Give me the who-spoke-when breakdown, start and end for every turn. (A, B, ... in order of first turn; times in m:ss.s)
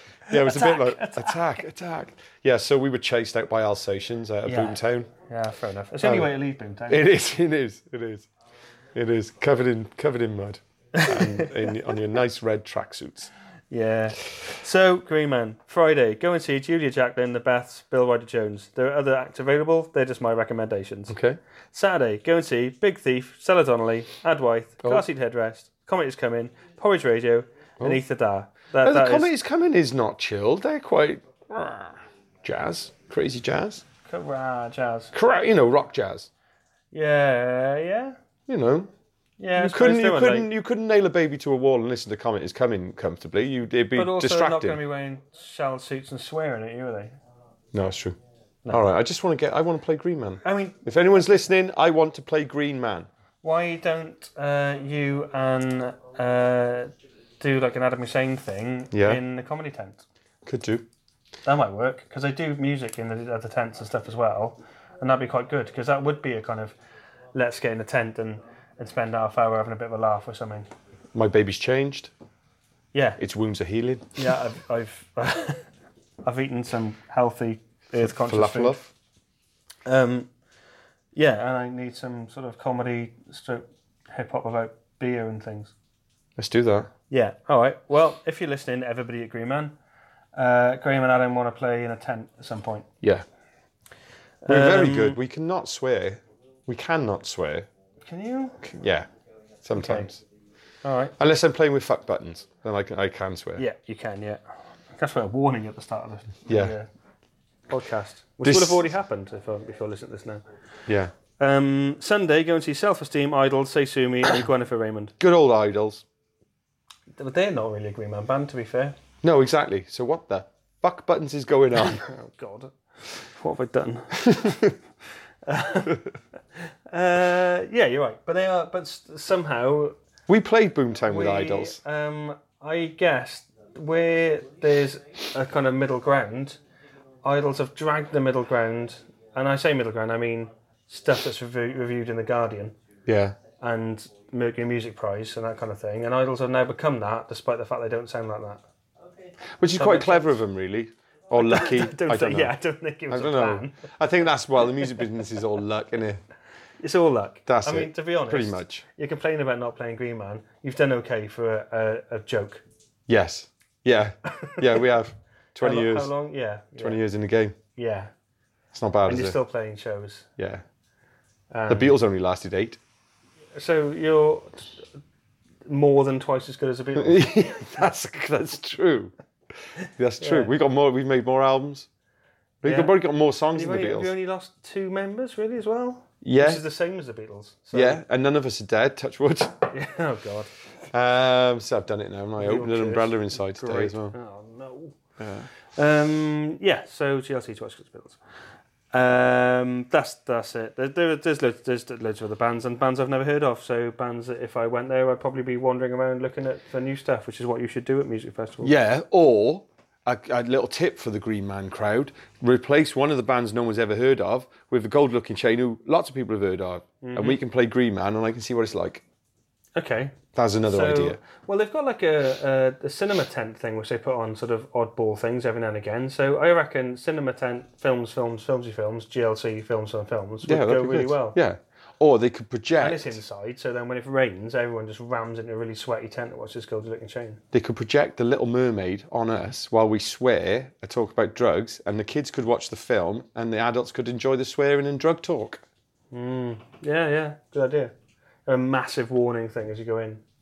0:00.3-0:05.1 A
0:00.3-0:01.6 B
0:04.4-0:07.1 B
0:06.0-0:06.4 A
0:06.9-0:08.3 A
0:09.0-0:13.3 A
0:10.9-0:11.4 B
0:13.7-0:21.2 B
0:21.1-0:21.4 A
0:21.7-0:29.3 B
0:28.8-0:33.8 A
0:34.0-0:35.1 B
0:35.1-0:36.3 A
0:36.9-0:38.2 B
0:38.5-0:38.9 A
0:39.4-0:40.5 B
0:39.6-0:44.8 A
0:44.0-0:47.2 B
0:47.7-0:48.2 A
0:48.7-0:53.1 A
0:50.4-0:50.8 B
0:53.4-1:00.0 B
0:58.9-0:59.2 A
1:00.4-1:00.9 A
1:01.4-1:06.8 B
1:07.3-1:10.7 B
1:11.2-1:12.1 A
1:12.9-1:13.2 B
1:13.2-1:14.2 A
1:14.2-1:15.7 B
1:16.2-1:18.8 B
1:18.0-1:18.9 A
1:19.8-1:20.3 B
1:21.2-1:25.7 B
1:26.4-1:26.9 A
1:27.1-1:29.8 B
1:30.3-1:32.9 B
1:34.4-1:35.2 B
1:34.5-1:37.7 A
1:38.0-1:38.7 B
1:38.6-1:39.1 A
1:39.6-1:40.2 A
1:39.8-1:40.1 B
1:40.8-1:41.1 B
1:41.2-1:43.6 A
1:43.6-1:44.4 B
1:44.9-1:46.9 B
1:46.5-1:46.8 A
1:47.7-1:50.4 B
1:48.4-1:48.8 A
1:50.9-1:51.1 A
1:51.4-1:55.2 B
1:55.2-1:56.0 A
1:57.2-1:59.0 B
1:59.2-2:02.0 A
2:01.9-2:04.8 B
2:04.3-2:04.6 A
2:05.5-2:06.1 B
2:06.9-2:10.0 B
2:10.3-2:11.8 A
2:11.1-2:16.6 B
2:17.2-2:22.8 B
2:23.1-2:23.4 A
2:23.6-2:28.6 B
2:29.6-2:32.6 A
2:29.8-2:30.4 B
2:31.3-2:33.8 B
2:33.1-2:36.2 A
2:36.8-2:42.6 B
2:37.5-2:38.8 A
2:43.1-2:46.1 A
2:45.6-2:47.0 B
2:46.8-2:47.6 A
2:47.8-2:48.1 B
2:48.7-2:49.4 A
2:49.1-2:50.3 B
2:50.4-2:50.6 A
2:51.5-2:52.0 B
2:51.7-2:52.8 A
2:53.6-2:54.9 B
2:55.7-2:57.7 B
2:57.0-2:59.1 A
2:59.9-3:01.9 A
3:00.2-3:00.5 B
3:02.6-3:04.1 A
3:02.6-3:03.0 B
3:03.5-3:08.0 B
3:06.2-3:06.6 A
3:07.7-3:09.7 A
3:09.7-3:10.5 B
3:10.9-3:14.2 A
3:12.4-3:15.0 B
3:15.2-3:15.5 A
3:15.7-3:18.2 B
3:18.9-3:28.7 B
3:28.6-3:39.0 A
3:37.0-3:37.4 B
3:39.8-3:51.4 B
3:40.4-3:41.2 A
3:50.4-3:53.2 A
3:52.8-3:57.4 B
3:57.5-4:05.6 A
4:06.1-4:07.9 B
4:08.5-4:10.2 B